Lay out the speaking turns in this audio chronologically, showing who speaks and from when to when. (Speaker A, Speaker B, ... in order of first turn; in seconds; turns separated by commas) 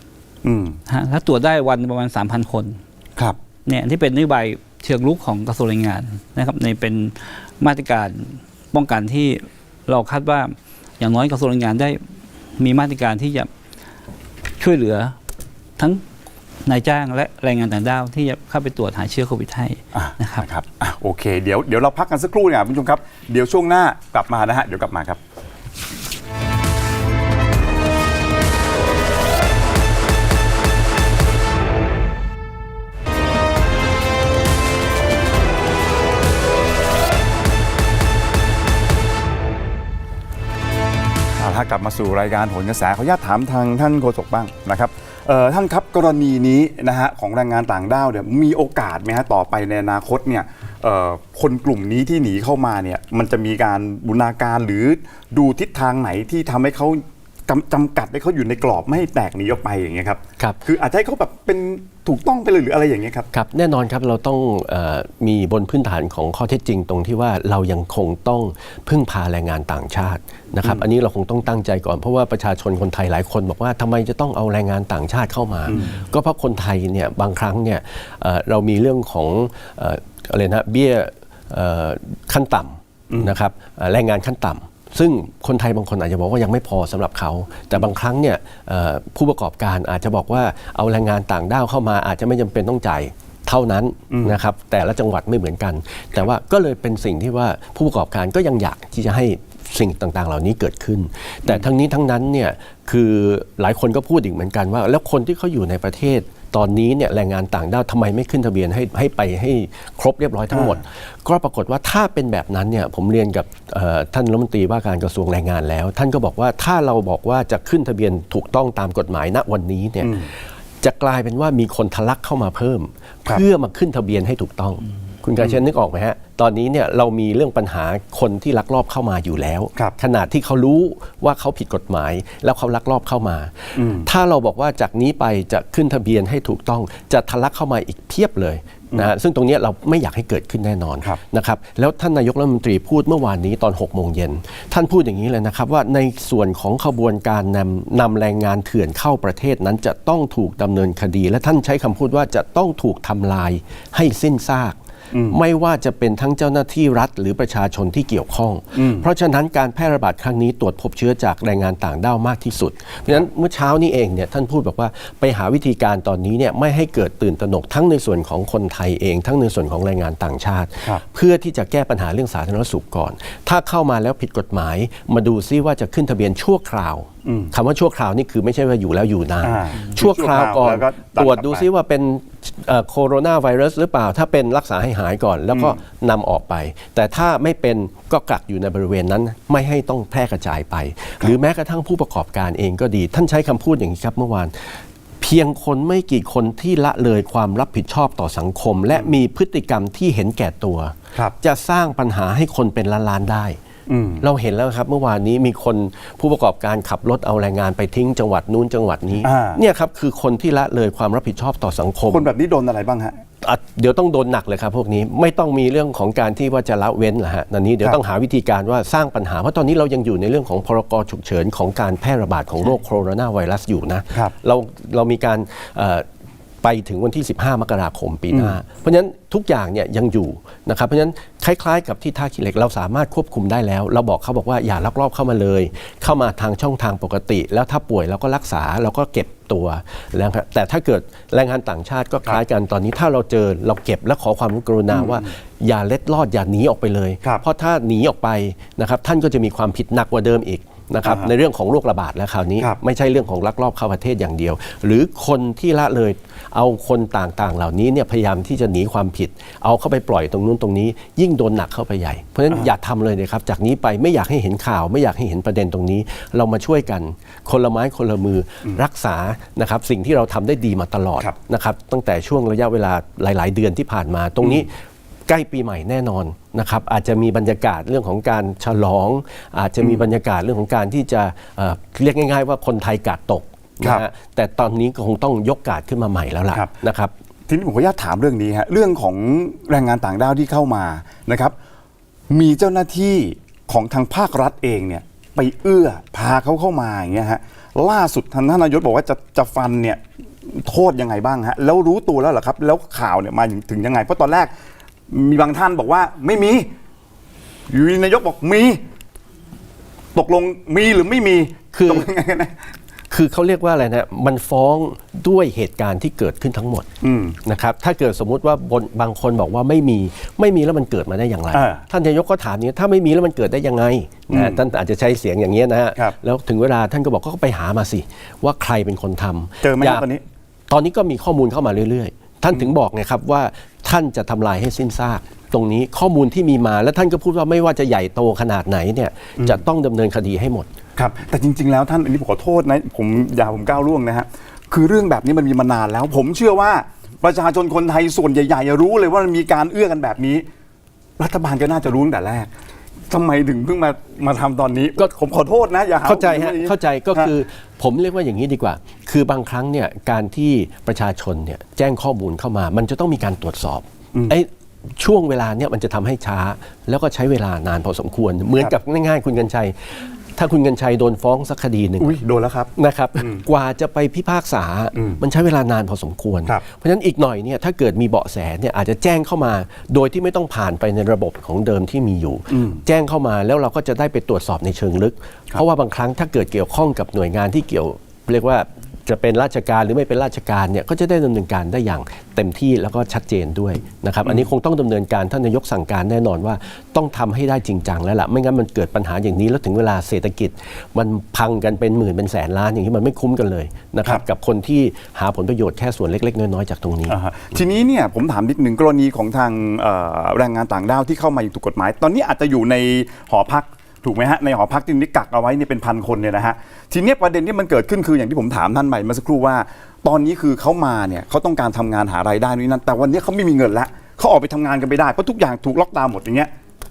Speaker A: 0.4-0.8, Speaker B: 0.9-2.8, Speaker B: 3.6-12.0, Speaker B: 12.6-13.5, Speaker B: 14.6-15.2, Speaker B: 16.6-20.4, Speaker A: 19.9-25.2, Speaker A: 41.4-63.3, Speaker C: 63.3-154.8, Speaker A: 94.1-94.4, Speaker A: 110.5-110.8, Speaker A: 120.0-120.3, Speaker A: 133.8-134.1, Speaker A: 155.1-155.4, Speaker C: 155.3-203.6, Speaker A: 158.7-159.1, Speaker A: 177.2-177.5, Speaker A: 179.4-181.6, Speaker A: 203.9-204.2, Speaker C: 204.2-212.3, Speaker A: 209.2-209.6, Speaker A: 212.1-213.2, Speaker C: 213.4-226.1, Speaker C: 226.6-274.7, Speaker A: 228.3-228.6, Speaker A: 244.9-245.3, Speaker A: 251.0-251.3, Speaker C: 275.3-287.1, Speaker A: 287.5-291.5, Speaker A: 292.3-304.5, Speaker A: 305.1-306.7, Speaker A: 307.7-308.8, Speaker A: 310.1-312.5, Speaker C: 311.7-312.1, Speaker C: 313.1-316.9, Speaker A: 317.0-317.4, Speaker C: 317.4-330.1, Speaker A: 321.5-321.8, Speaker A: 324.3-324.6, Speaker A: 329.6-330.2, Speaker C: 330.7-340.7, Speaker A: 341.0-350.4, Speaker A: 351.2-352.5, Speaker A: 353.1-357.3, Speaker C: 356.0-372.2, Speaker A: 372.0-373.4, Speaker C: 372.8-407.2, Speaker A: 382.5-382.8, Speaker A: 407.1-426.5